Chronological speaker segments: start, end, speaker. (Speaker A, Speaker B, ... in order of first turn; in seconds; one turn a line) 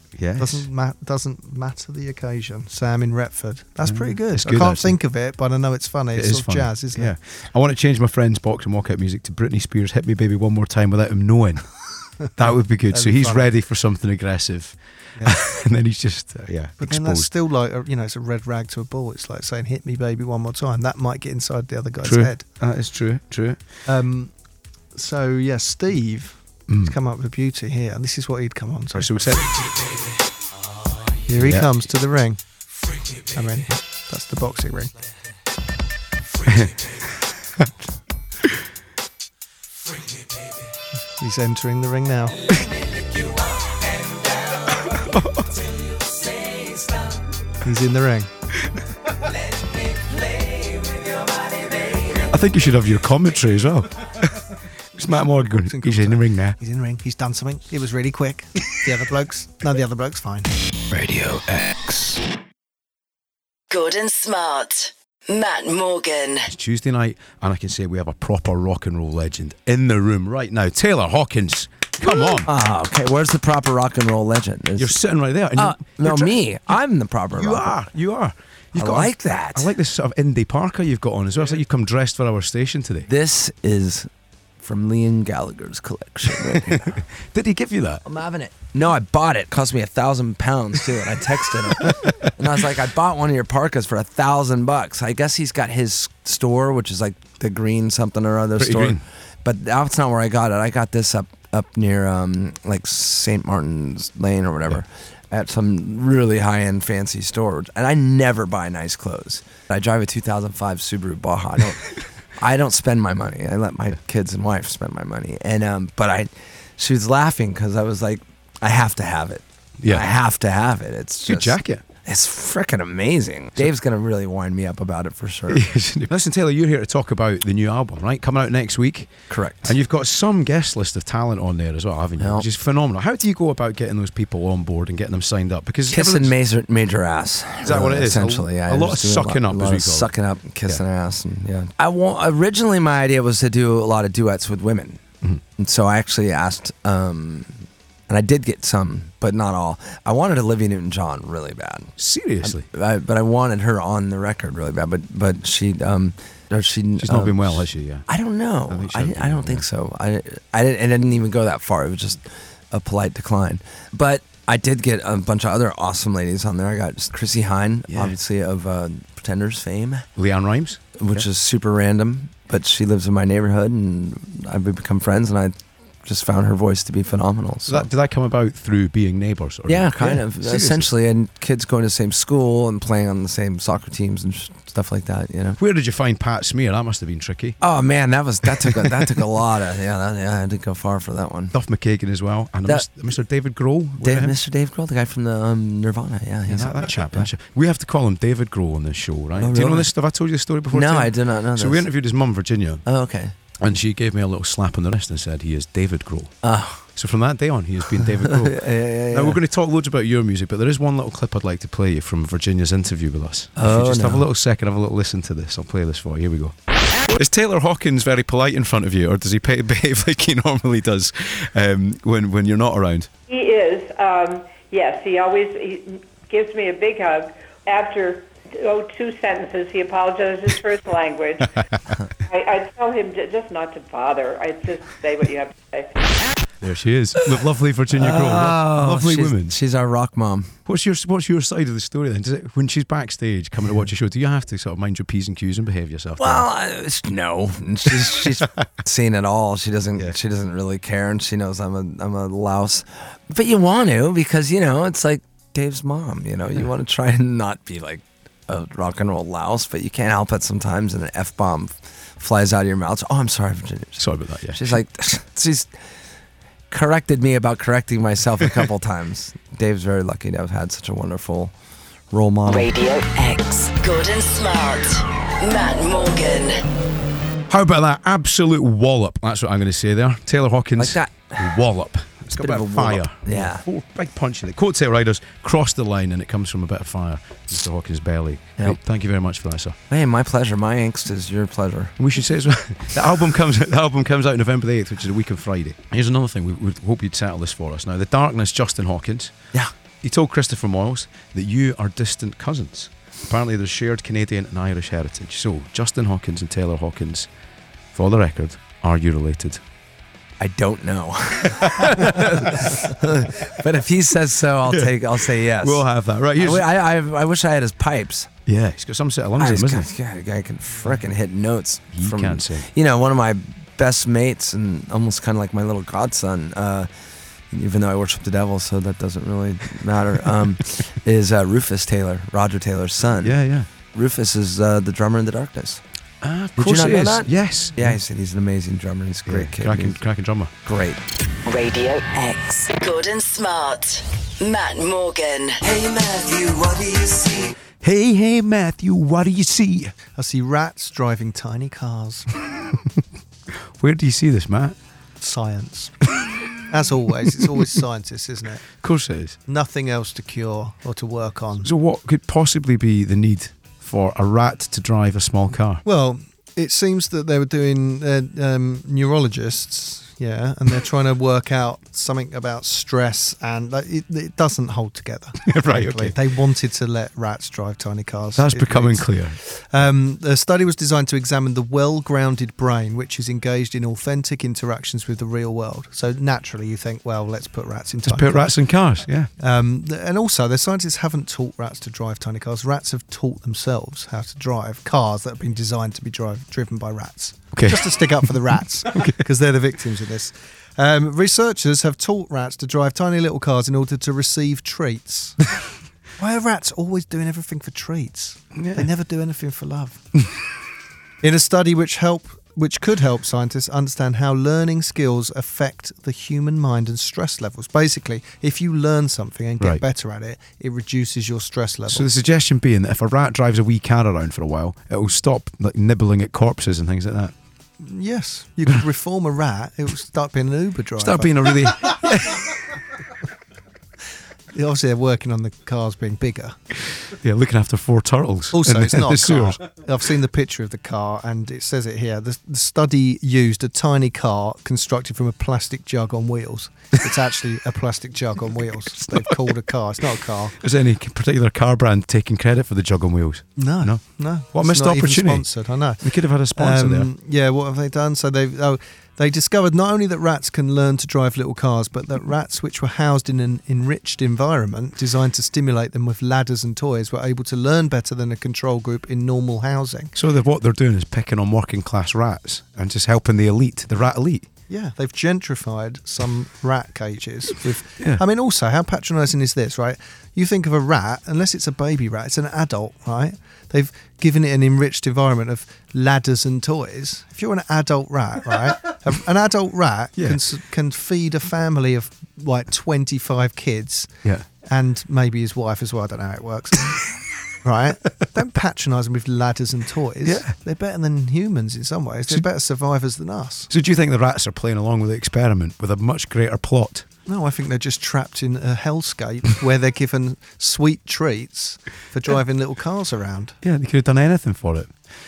Speaker A: 0.2-0.7
Speaker B: 0.4-7.1
Speaker A: 3.9-5.0
Speaker A: 6.1-11.7
Speaker A: 12.3-17.3
Speaker B: 12.9-13.5
Speaker B: 16.8-22.4
Speaker A: 22.0-23.6
Speaker B: 23.9-24.3
Speaker B: 24.9-29.4
Speaker A: 26.7-26.9
Speaker A: 28.9-29.5
Speaker B: 31.3-32.4
Speaker A: 31.3-31.7
Speaker B: 33.3-34.9
Speaker A: 36.5-36.9
Speaker B: 41.2-42.4
Speaker A: 44.9-45.5
Speaker C: 46.4-46.9
Speaker B: 47.6-48.3
Speaker A: 52.2-56.6
Speaker B: 55.5-60.5
Speaker C: 60.9-62.2
Speaker D: 63.7-66.5
Speaker A: 66.5-72.5
Speaker E: 72.3-74.9
Speaker A: 74.8-76.4
Speaker E: 75.6-77.8
Speaker A: 77.3-83.1
Speaker E: 78.8-79.7
Speaker E: 83.1-84.1
Speaker E: 84.6-87.0
Speaker A: 86.4-88.0
Speaker E: 88.0-125.7
Speaker A: 91.8-92.3
Speaker A: 98.5-99.0
Speaker A: 119.8-120.1
Speaker A: 121.3-121.8
Speaker A: 125.5-136.3
Speaker E: 129.3-129.8
Speaker E: 132.2-132.4
Speaker E: 135.9-145.0
Speaker A: 137.6-140.1
Speaker E: 145.6-170.1
Speaker A: 152.0-152.7
Speaker A: 157.0-158.1
Speaker A: 158.7-159.7
Speaker A: 167.9-168.2
Speaker A: 170.2-171.3
Speaker E: 171.0-177.9
Speaker A: 177.7-180.9
Speaker E: 179.7-185.6
Speaker A: 185.6-187.6
Speaker E: 187.6-191.5
Speaker A: 188.5-189.1
Speaker A: 191.5-194.4
Speaker E: 194.0-197.3
Speaker A: 196.5-202.8
Speaker E: 199.4-199.9
Speaker E: 200.7-201.9
Speaker E: 202.9-203.3
Speaker A: 203.6-206.4
Speaker E: 206.4-206.8
Speaker A: 206.9-223.1
Speaker E: 207.9-209.4
Speaker E: 213.6-214.3
Speaker F: 223.3-231.6
Speaker F: 232.2-236.0
Speaker A: 236.6-239.6
Speaker E: 237.9-240.5
Speaker A: 240.7-246.5
Speaker E: 246.2-265.7
Speaker A: 248.1-248.4
Speaker A: 264.0-264.8
Speaker E: 266.7-271.5
Speaker E: 272.1-272.7
Speaker D: 272.5-276.6
Speaker A: 277.5-289.8
Speaker E: 280.8-281.5
Speaker E: 282.3-283.6
Speaker E: 289.9-291.9
Speaker A: 292.0-299.3
Speaker A: 300.0-307.3
Speaker A: 307.9-309.6
Speaker E: 310.4-318.3
Speaker A: 311.6-313.4
Speaker A: 314.6-316.7
Speaker A: 318.5-319.9
Speaker E: 319.4-326.9
Speaker A: 321.9-322.7
Speaker E: 327.5-333.4
Speaker A: 333.2-333.7
Speaker E: 333.9-335.8
Speaker A: 336.2-338.0
Speaker E: 336.6-340.0
Speaker A: 339.3-340.5
Speaker E: 340.6-341.0
Speaker D: 341.4-345.6
Speaker C: 345.6-347.5
Speaker A: 347.8-349.9
Speaker B: 350.1-352.3
Speaker A: 352.5-353.0
Speaker A: 353.8-354.8
Speaker B: 355.2-356.0
Speaker B: 356.7-358.6
Speaker A: 358.8-359.4
Speaker B: 359.5-361.7
Speaker A: 361.6-365.8
Speaker B: 365.8-388.6
Speaker A: 375.5-376.1
Speaker A: 378.4-379.4
Speaker A: 388.1-389.3
Speaker B: 389.4-405.5
Speaker A: 397.5-398.0
Speaker A: 398.9-399.2
Speaker B: 406.2-410.0
Speaker A: 408.6-408.9
Speaker B: 411.2-422.1
Speaker A: 421.9-427.3
Speaker B: 427.8-432.3
Speaker A: 431.0-432.5
Speaker B: 434.5-436.6
Speaker A: 437.2-439.6
Speaker B: 438.5-450.6
Speaker A: 449.0-449.6
Speaker A: 450.6-455.5
Speaker B: 453.6-470.1
Speaker A: 456.0-457.1
Speaker A: 470.2-474.5
Speaker B: 474.7-494.1
Speaker B: 494.6-497.1
Speaker B: 497.6-503.7
Speaker A: 500.2-500.6
Speaker A: 503.7-507.1
Speaker B: 507.3-513.6
Speaker A: 513.6-514.9